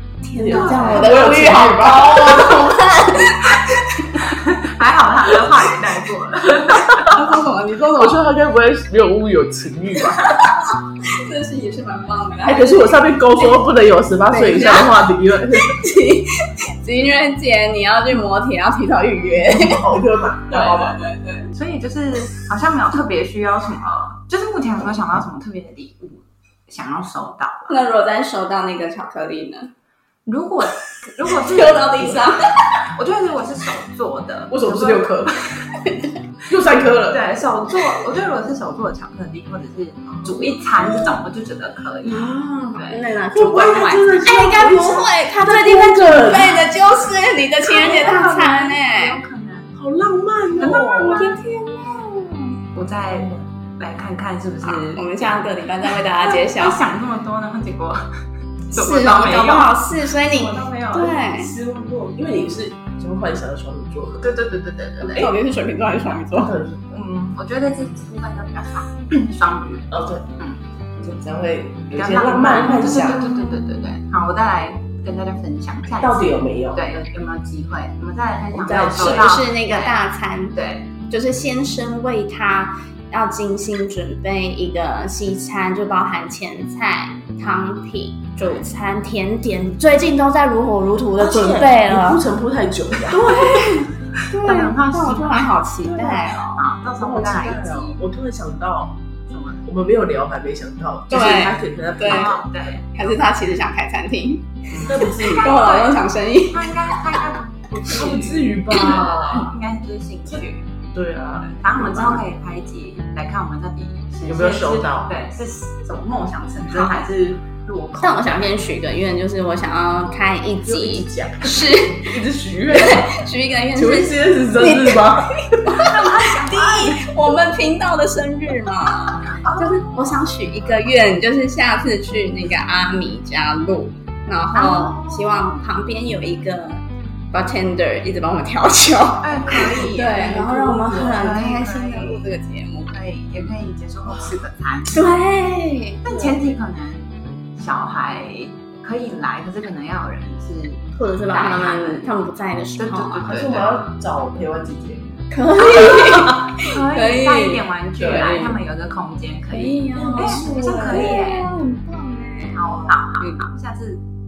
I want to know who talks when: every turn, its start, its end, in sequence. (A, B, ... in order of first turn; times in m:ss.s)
0:00.2-0:04.2 A
0:00.4-0:02.8 B
0:00.5-0:01.5 C
0:04.2-0:07.1 C
0:07.0-0:08.2 A
0:08.0-0:10.4 B
0:10.2-0:13.6 A
0:12.4-0:15.8 B
0:14.3-0:20.0 A
0:19.5-0:21.0 B
0:20.5-0:21.5 A
0:21.5-0:27.8 C
0:27.7-0:29.7 A
0:30.3-0:32.3 C
0:31.3-0:32.4 A
0:33.0-0:35.6 C
0:34.5-0:35.4 B
0:35.8-0:36.1 A
0:36.5-0:37.3 B
0:37.1-0:43.0 C
0:40.2-0:41.2 B
0:42.0-0:49.2 A
0:43.3-0:46.7 B
0:47.6-0:49.7 C
0:49.8-0:51.3 B
0:50.6-0:51.4 C
0:50.6-0:52.6 A
0:52.8-0:58.1 C
0:54.6-0:56.8 A
0:58.7-1:01.2 C
0:58.7-1:01.5 A
1:01.3-1:04.3 B
1:04.2-1:05.3 C
1:05.0-1:06.5 A
1:06.3-1:06.8 B
1:06.9-1:10.6 C
1:09.9-1:10.3 B
1:11.0-1:13.3 B
1:11.9-1:20.0 C
1:16.0-1:16.8 B
1:18.5-1:19.4 B
1:19.0-1:20.6 A
1:20.5-1:20.9 C
1:21.1-1:32.2 A
1:31.2-1:33.7 B
1:33.1-1:38.0 C
1:33.2-1:36.6 A
1:37.0-1:39.0 B
1:39.3-1:39.7 C
1:39.7-1:42.5 B
1:41.1-1:42.4 A
1:42.0-1:43.3 C
1:43.0-1:46.7 A
1:44.7-1:50.7 C
1:44.8-1:45.7 B
1:47.9-1:49.5 B
1:48.7-1:49.0 A
1:50.9-1:51.5 B
1:51.4-1:58.5 C
1:51.8-1:52.2 A
1:54.3-1:55.1 B
1:56.7-1:57.0 A
1:58.0-2:02.2 A
2:00.6-2:03.1 B
2:02.7-2:22.9 A
2:03.7-2:05.8 B
2:05.8-2:07.1 C
2:09.2-2:09.8 C
2:14.5-2:15.6 C
2:19.2-2:22.2 C
2:19.4-2:21.4 B
2:22.9-2:25.1 C
2:24.9-2:26.1 A
2:26.0-2:32.1 C
2:31.0-2:33.3 A
2:32.8-2:33.8 C
2:33.2-2:35.1 B
2:35.3-2:38.6 A
2:35.8-2:41.5 C
2:38.0-2:38.3 B
2:39.5-2:43.5 A
2:39.9-2:41.2 B
2:42.6-2:44.0 C